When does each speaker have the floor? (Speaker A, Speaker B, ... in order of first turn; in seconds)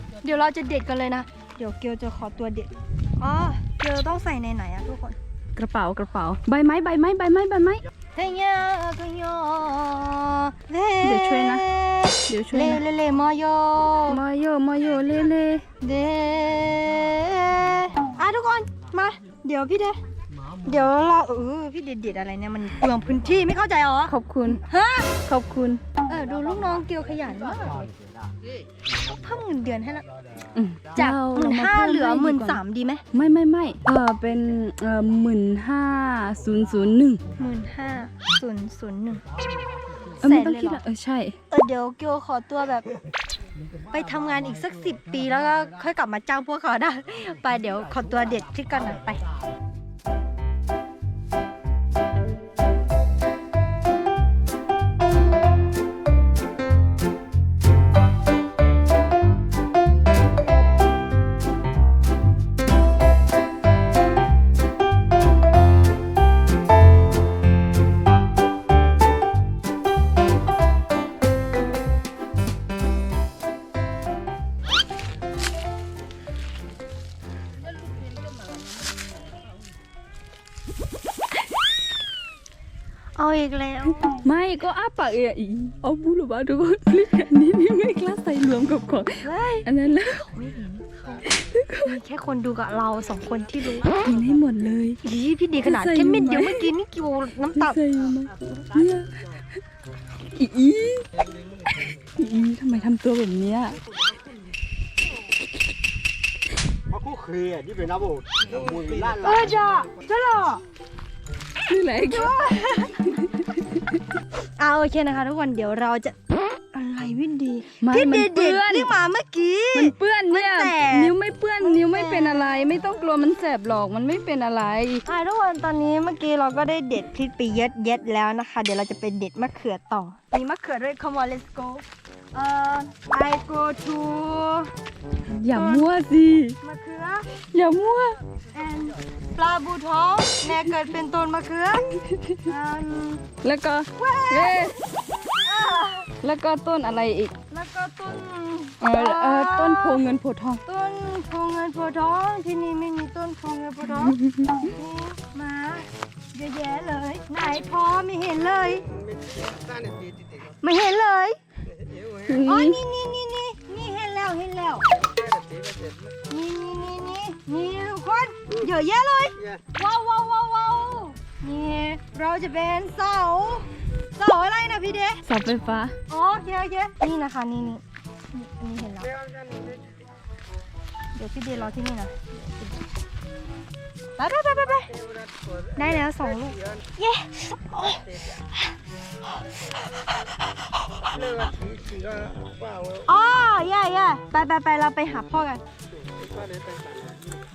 Speaker A: 0.2-5.2, 8.1-14.2, 15.8-20.0, 20.6-25.2, 26.1-27.9, 29.0-30.0, 30.9-33.0, 37.4-39.2, 40.2-40.8, 41.5-42.9, 43.8-49.2, 83.2-84.1, 89.2-89.7, 90.3-91.2, 91.8-93.9, 95.0-97.8, 109.2-110.6, 112.1-113.0, 114.6-116.1, 116.7-122.7, 125.0-134.7, 135.5-135.9, 136.6-137.3, 138.5-141.8, 142.4-143.2, 144.0-144.7, 145.4-146.1, 147.5-150.0, 150.7-158.8, 160.6-161.4, 162.4-164.8, 166.3-175.2, 176.1-179.2, 181.1-182.8, 184.2-184.9, 185.7-188.0, 193.0-195.6
Speaker B: 5.5-7.8, 11.0-11.7, 12.3-12.8, 14.1-15.6, 24.1-24.6, 25.2-25.8, 30.5-32.6, 33.1-37.2, 40.2-41.4, 84.2-90.3, 91.3-92.0, 94.0-95.0, 95.6-96.7, 97.6-99.2, 100.4-101.0, 101.7-103.8, 111.7-112.3, 113.2-114.0, 117.8-118.9, 119.7-125.0, 135.3-136.6, 137.5-138.2, 142.1-142.4, 143.4-144.8, 146.2-147.3, 148.8-150.6, 153.9-154.7, 162.2-162.8, 175.2-175.9
Speaker C: 106.9-109.3, 159.3-160.0, 165.5-165.9, 191.8-192.7, 196.3-197.2